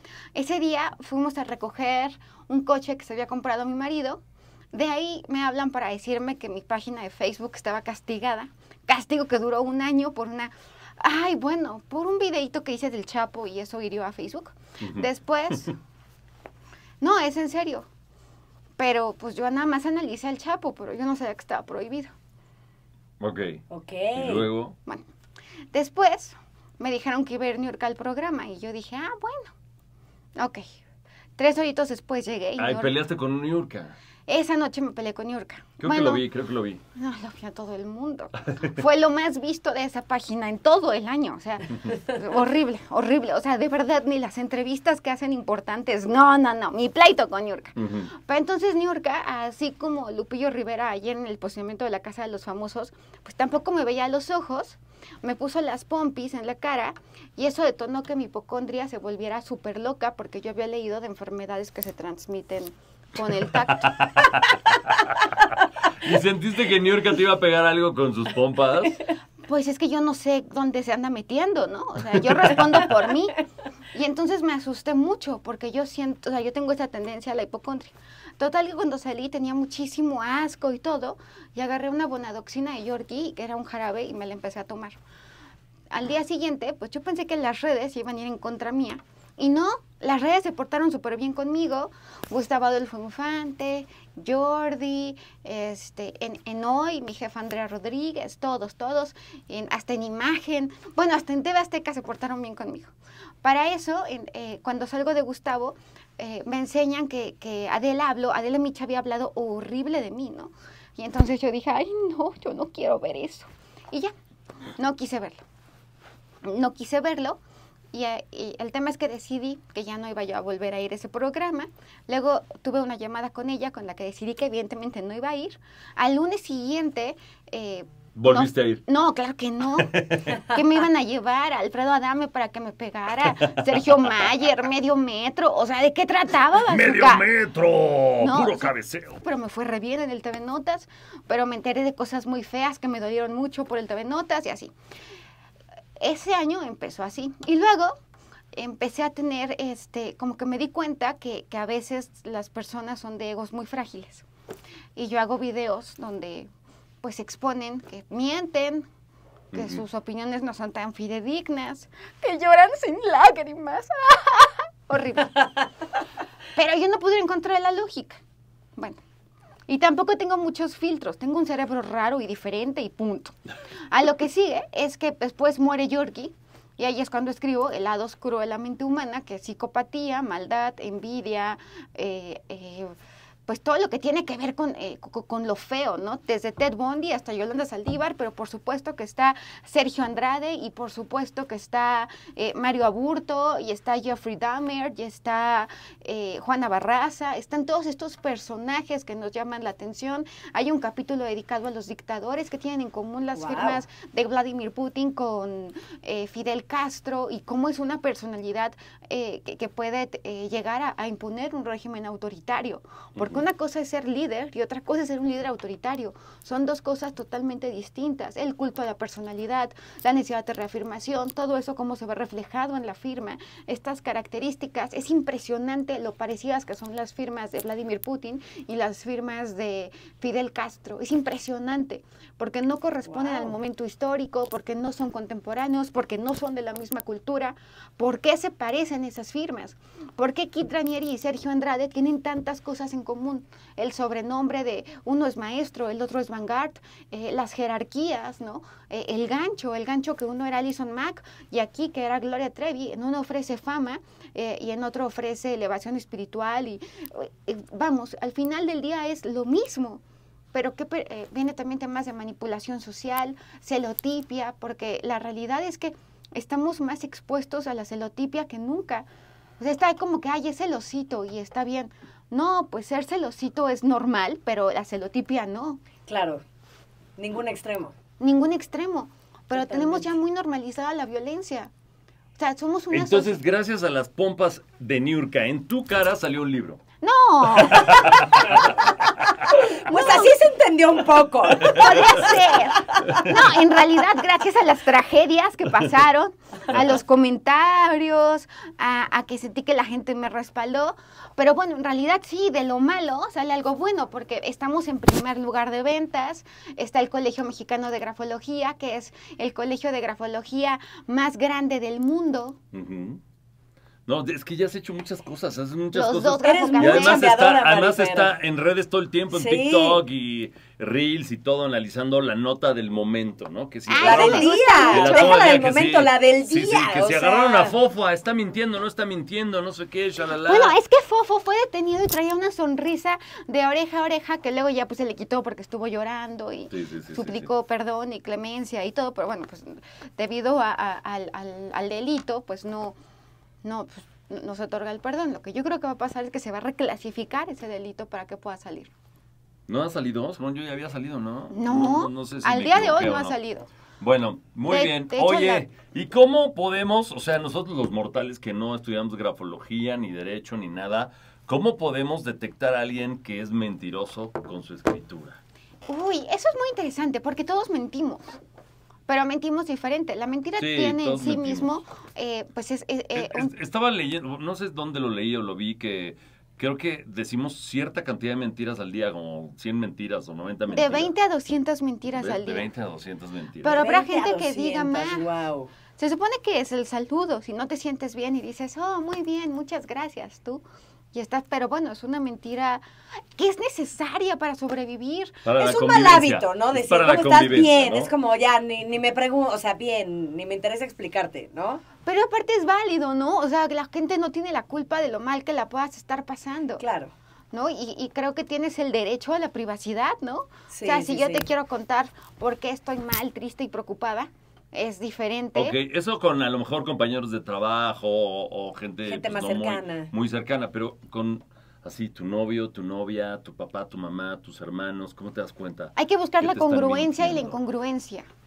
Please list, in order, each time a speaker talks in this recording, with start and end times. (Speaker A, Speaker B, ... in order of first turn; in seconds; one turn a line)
Speaker A: 0.3-4.2
Speaker A: 4.7-15.7
Speaker B: 14.8-15.1
Speaker A: 17.0-17.9
Speaker A: 18.8-22.1
Speaker B: 23.2-23.6
Speaker C: 23.7-24.5
Speaker B: 24.1-24.7
Speaker A: 25.7-29.5
Speaker A: 30.4-30.7
Speaker A: 31.4-33.0
Speaker B: 32.6-33.9
Speaker A: 34.3-36.2
Speaker B: 35.8-36.8
Speaker A: 37.0-64.1
Speaker B: 47.8-48.1
Speaker B: 63.7-65.2
Speaker B: 66.0-69.0
Speaker A: 69.5-73.4
Speaker A: 73.9-85.0
Speaker A: 85.9-114.1
Speaker A: 114.8-115.4
Speaker A: 116.4-117.4
Speaker A: 117.9-137.3
Speaker B: 128.1-128.8
Speaker B: 129.8-130.3
Speaker B: 133.4-133.6
Speaker B: 136.7-139.2
Speaker A: 138.2-144.7
Speaker A: 146.0-147.9
Speaker A: 148.5-154.2
Speaker A: 154.9-156.5
Speaker A: 157.0-158.8
Speaker B: 159.5-159.8
Speaker A: 159.5-165.5
Speaker A: 166.5-168.2
Speaker A: 168.8-169.0
Speaker A: 169.7-173.3
Speaker A: 173.9-182.9
Speaker A: 183.5-260.0
Speaker C: 203.3-203.8
Speaker C: 233.0-233.6
Speaker A: 260.5-269.1
Speaker A: 269.6-275.8
Speaker C: 276.1-276.4
Speaker C: 277.2-277.9
Speaker A: 278.2-281.7
Speaker C: 279.5-280.1
Speaker A: 282.4-283.4
Speaker B: 282.9-286.8
Speaker A: 287.0-288.3
Speaker B: 287.6-289.5
Speaker C: 289.5-293.2
Speaker A: 289.9-290.4
Speaker A: 291.6-312.6
Speaker B: 291.7-292.1
Speaker B: 312.7-313.2
Speaker B: 314.1-330.7
Speaker A: 315.9-317.2
Speaker C: 316.4-318.3
Speaker C: 319.3-320.0
Speaker A: 323.9-325.4
Speaker C: 324.0-327.7
Speaker A: 330.4-342.9
Speaker B: 336.7-337.5
Speaker A: 343.6-348.9
Speaker B: 349.7-353.4
Speaker A: 351.5-353.7
Speaker B: 354.0-365.4
Speaker A: 354.7-355.6
Speaker A: 365.9-368.4
Speaker A: 369.1-373.5
Speaker B: 370.6-371.7
Speaker B: 373.1-381.1
Speaker A: 380.7-382.7
Speaker B: 382.1-383.8
Speaker A: 383.6-385.2
Speaker C: 383.7-385.7
Speaker A: 386.0-392.8
Speaker A: 393.4-395.4
Speaker B: 395.4-398.1
Speaker C: 395.6-401.8
Speaker A: 402.0-406.8
Speaker C: 406.8-407.1
Speaker A: 407.5-415.8
Speaker C: 410.7-411.5
Speaker B: 415.5-427.6
Speaker C: 419.1-420.1
Speaker A: 425.9-428.2